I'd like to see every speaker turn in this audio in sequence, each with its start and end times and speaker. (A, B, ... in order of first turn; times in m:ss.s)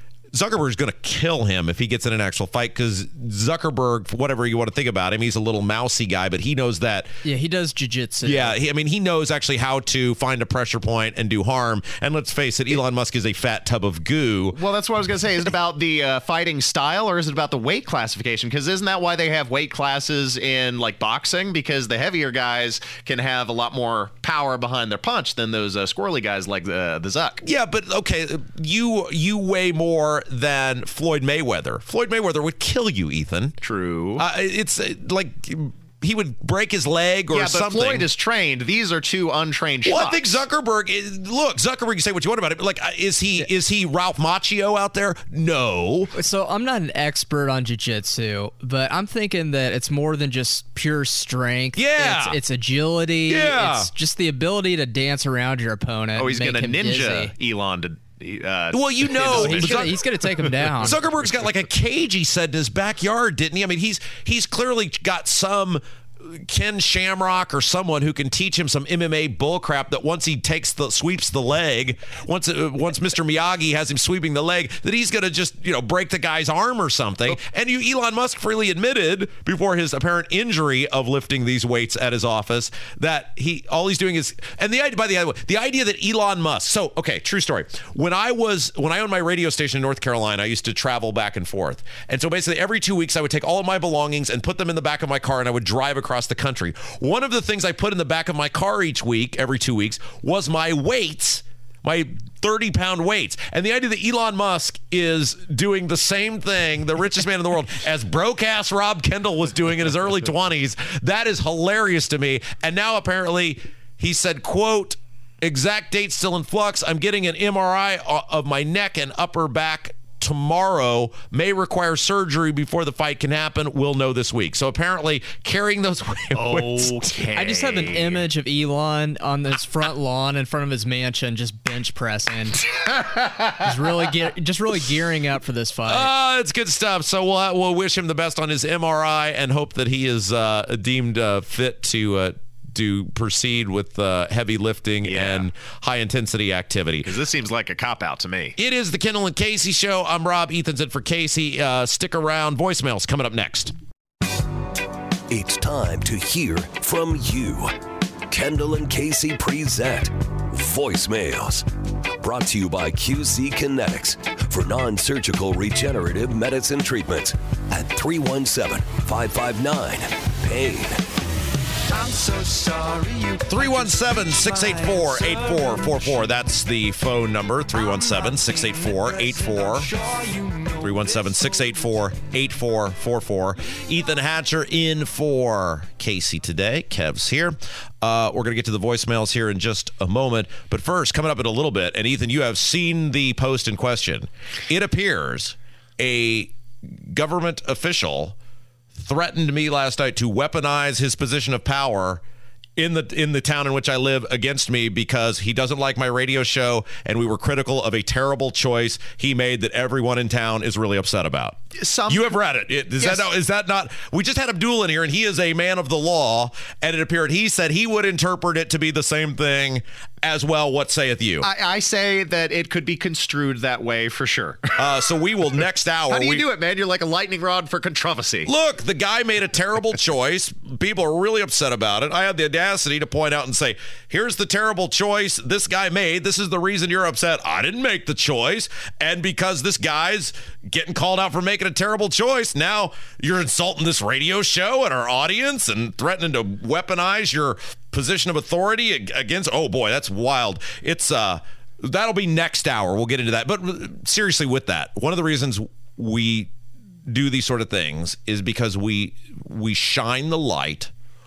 0:00.3-0:07.1 A
0:07.2-0:08.6 B
0:08.2-0:14.6 A
0:14.6-0:27.4 C
0:27.4-0:33.6 A
0:33.6-0:34.2 C
0:34.2-0:38.1 A
0:37.3-0:40.4 C
0:39.8-0:46.1 A
0:46.1-0:57.3 B
0:51.8-0:52.4 A
0:53.3-0:53.9 A
0:56.2-1:01.0 C
0:58.7-1:00.0 A
0:59.2-1:01.0 B
1:00.8-2:07.2 A
2:06.4-2:08.3 C
2:07.3-2:12.6 B
2:13.6-2:16.1 B
2:15.9-2:27.1 A
2:25.0-2:25.5 C
2:27.0-2:28.5 C
2:28.6-2:33.7 A
2:35.3-2:37.7 D
2:38.3-2:41.6 D
2:42.2-2:51.0 D
2:53.5-2:59.9 A
3:00.8-3:18.4 A
3:19.0-3:22.2 A
3:22.8-3:41.5 A
3:31.8-3:32.4 C
3:41.4-3:44.8 C
3:44.8-3:46.4 A
3:46.1-3:48.5 C
3:48.5-4:16.5 A
4:17.1-4:20.9 A